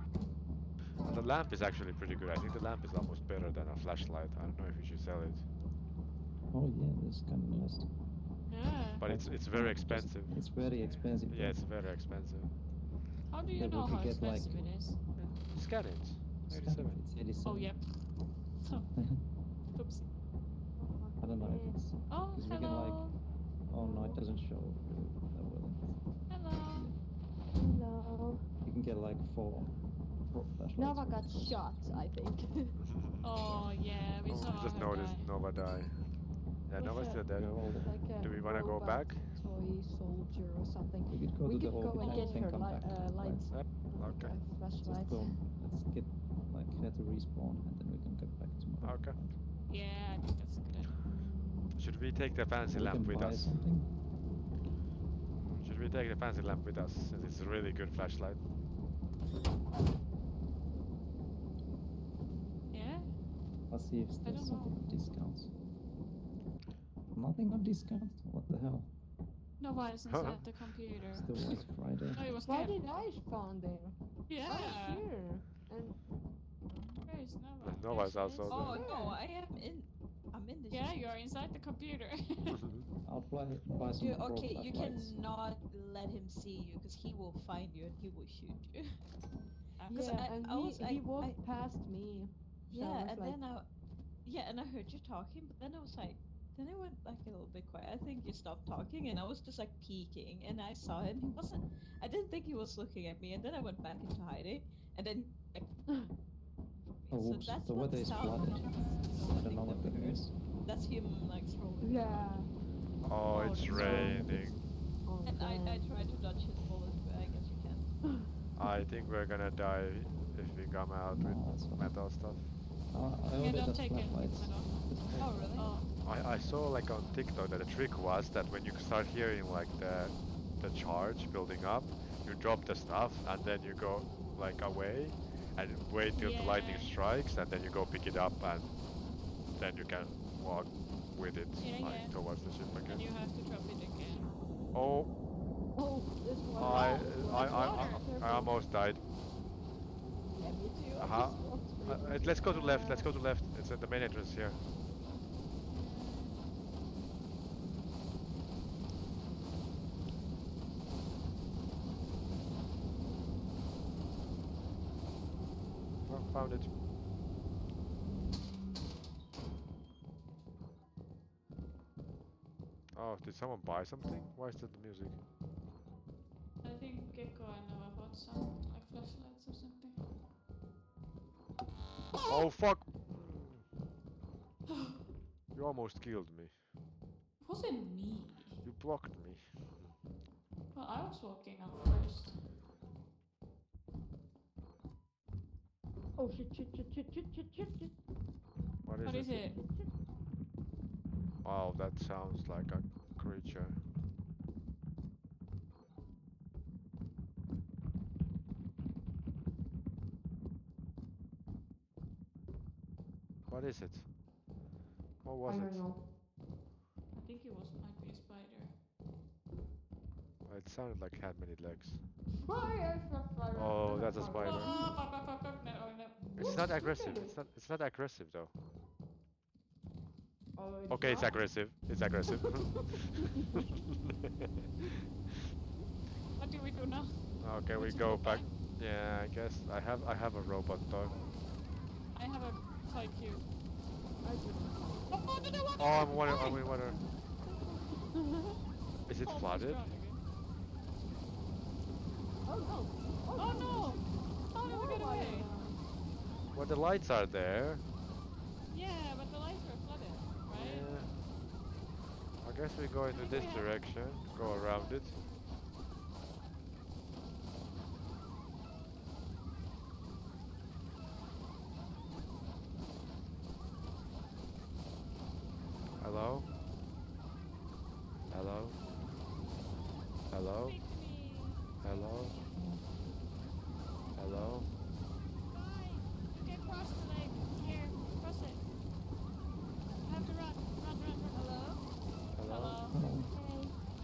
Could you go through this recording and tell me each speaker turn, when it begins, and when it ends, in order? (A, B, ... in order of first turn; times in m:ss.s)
0:01.0-0:05.5 A
0:06.5-0:07.9 B
0:08.5-0:09.0 C
0:09.0-0:10.4 A
0:09.0-0:11.6 B
0:11.3-0:12.6 A
0:13.3-0:15.0 C
0:13.5-0:14.8 B
0:15.4-0:17.0 A
0:16.5-0:17.8 B
0:17.4-0:18.9 C
0:19.7-0:20.1 C
0:20.8-0:21.8 D
0:21.2-0:23.1 B
0:22.1-0:23.2 C
0:23.6-0:25.9 B
0:23.7-0:24.2 D
0:26.3-0:26.9 C
0:26.7-0:27.0 B
0:27.5-0:28.4 D
0:28.6-0:31.6 B
0:30.8-0:32.8 D
0:32.8-0:33.5 A
0:33.2-0:35.4 C
0:34.3-0:36.1 A
0:36.6-0:37.6 A
0:36.8-0:37.2 C
0:37.3-0:37.9 B
0:37.8-0:45.4 D
0:38.2-0:39.3 A
0:41.1-0:43.5 B
0:42.0-0:42.4 C
0:43.5-0:44.4 A
0:44.8-0:49.4 B
0:48.8-0:49.2 A
0:49.7-0:51.0 C
0:51.0-0:51.8 D
0:51.8-0:53.6 A
0:52.7-0:53.9 B
0:55.4-0:58.4 A
1:02.7-1:03.1 C
1:03.7-1:05.5 B
1:04.2-1:04.8 C
1:07.1-1:08.9 B
1:09.6-1:11.6 C
1:10.1-1:10.4 A
1:11.1-1:12.2 B
1:12.1-1:13.1 C
1:12.4-1:16.0 D
1:14.3-1:15.0 C
1:16.7-1:17.0 E
1:17.0-1:18.8 C
1:17.6-1:18.9 A
1:18.5-1:21.1 E
1:18.7-1:19.2 D
1:20.7-1:22.6 C
1:22.5-1:22.9 A
1:23.0-1:25.1 B
1:23.8-1:29.0 E
1:29.8-1:30.2 C
1:29.9-1:33.4 D
1:29.9-1:31.4 E
1:32.7-1:33.7 E
1:34.2-1:45.7 E
1:46.9-1:52.4 E
1:47.1-1:48.7 B
1:49.2-1:50.3 B
1:51.8-1:52.5 D
1:53.0-1:54.6 A
1:53.3-1:54.3 C
1:53.7-1:54.6 B
1:53.7-1:54.1 D
1:55.0-1:55.9 D
1:55.2-1:57.9 E
1:58.6-2:02.5 A
2:01.1-2:01.9 B
2:02.9-2:05.5 B
2:03.4-2:05.9 C
2:05.2-2:05.7 E
2:06.0-2:18.7 A
2:16.2-2:16.9 C
2:19.5-2:23.0 A
2:21.6-2:22.2 C
2:22.7-2:24.4 C
2:24.7-2:25.2 A
2:25.7-2:28.6 D
2:26.6-2:29.0 A
2:26.7-2:28.1 C
2:30.3-2:32.9 D
2:31.0-2:34.6 A
2:32.5-2:33.0 C
2:35.7-2:36.4 C
2:46.0-2:46.7 A
2:52.9-2:55.2 A
2:56.6-3:00.0 C
3:02.1-3:02.5 C
3:02.3-3:03.6 A
3:05.5-3:06.5 A
3:07.4-3:08.6 C
3:08.6-3:09.9 A
3:10.7-3:12.4 C
3:16.2-3:17.9 D
3:18.8-3:19.5 A
3:19.0-3:19.6 C
3:19.5-3:19.9 D
3:21.4-3:23.8 A
3:33.5-3:34.0 A
3:35.2-3:35.9 A
3:35.4-3:36.0 D
3:37.1-3:38.7 C
3:40.4-3:42.0 A
3:42.4-3:45.0 D
3:43.5-3:44.7 A
3:44.3-3:46.8 C
3:46.2-3:47.4 D
3:46.4-3:48.5 A
3:50.6-3:51.4 D
3:50.9-3:53.7 A
3:54.3-3:55.4 A
3:56.4-3:58.5 C
3:57.4-4:01.2 A
4:02.1-4:03.4 C
4:04.2-4:05.7 D
4:05.1-4:06.7 C
4:05.8-4:07.0 A
4:07.4-4:08.5 D
4:09.1-4:09.8 A
4:09.2-4:10.2 C
4:12.4-4:14.0 D
4:13.4-4:15.5 C
4:14.6-4:15.8 D
4:16.5-4:17.9 A
4:18.7-4:20.9 C
4:20.5-4:21.2 A
4:22.4-4:25.2 A
4:23.1-4:23.8 C
4:36.0-4:36.5 A
4:38.3-4:38.8 A
4:40.3-4:40.8 A
4:40.6-4:42.6 C
4:41.8-4:42.4 A
4:44.2-4:44.7 A
4:45.5-4:48.6 C
4:50.0-4:51.5 C
4:51.3-4:51.9 E
4:52.3-4:52.8 A
4:52.4-4:53.0 C
4:52.9-4:53.3 B
4:53.3-4:53.7 D